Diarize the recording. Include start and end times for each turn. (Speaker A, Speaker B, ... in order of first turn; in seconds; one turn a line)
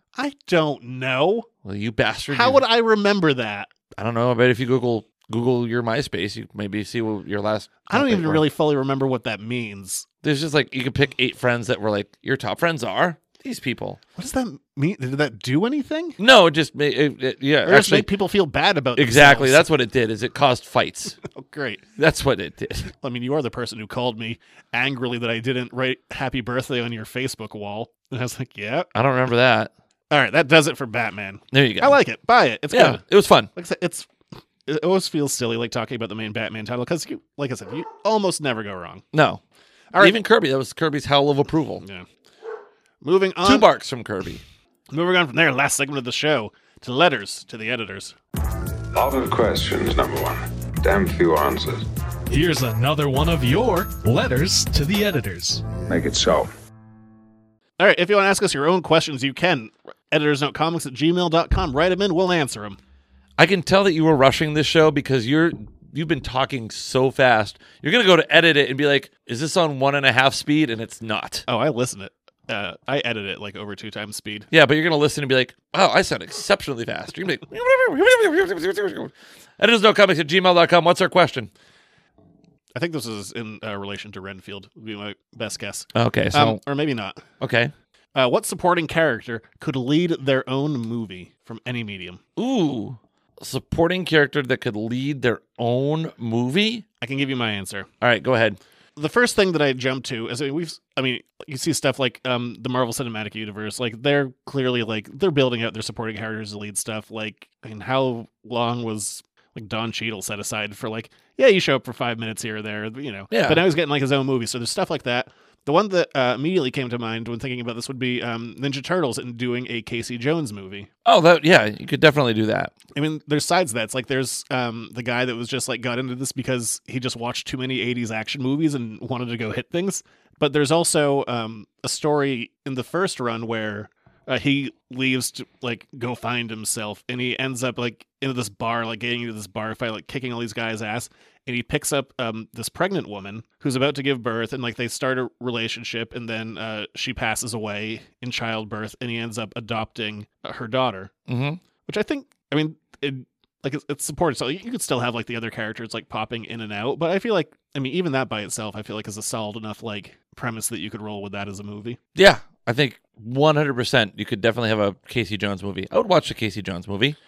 Speaker A: 0.1-1.5
Speaker B: 1.6-2.6
Speaker A: 2.3-3.7
Speaker B: 3.9-8.4
Speaker A: 7.9-10.1
Speaker B: 10.2-14.0
Speaker A: 14.2-16.2
Speaker B: 16.2-18.1
Speaker A: 17.6-19.7
Speaker B: 18.9-21.2
Speaker A: 21.2-21.8
Speaker B: 22.0-22.9
Speaker A: 23.0-28.9
Speaker B: 28.9-29.7
Speaker A: 30.1-33.0
Speaker B: 31.5-32.0
Speaker B: 32.7-33.5
Speaker A: 33.5-34.1
Speaker A: 34.6-39.0
Speaker B: 39.1-39.4
Speaker A: 39.9-40.2
Speaker B: 40.0-41.8
Speaker A: 43.0-43.7
Speaker B: 43.4-44.4
Speaker A: 44.9-48.1
Speaker C: 48.9-51.8
Speaker D: 52.3-55.6
Speaker C: 55.9-56.5
Speaker A: 57.8-62.8
Speaker B: 63.4-71.5
Speaker A: 71.5-74.5
Speaker B: 74.5-81.5
Speaker A: 82.7-87.2
Speaker B: 85.9-86.6
Speaker B: 87.4-87.7
Speaker A: 88.1-92.2
Speaker B: 92.4-96.8
Speaker A: 97.0-97.9
Speaker B: 98.0-98.6
Speaker A: 99.0-120.9
Speaker B: 113.3-113.6
Speaker B: 121.0-122.7
Speaker A: 122.9-151.1
Speaker B: 151.3-151.6
Speaker A: 151.8-162.0
Speaker B: 162.1-167.2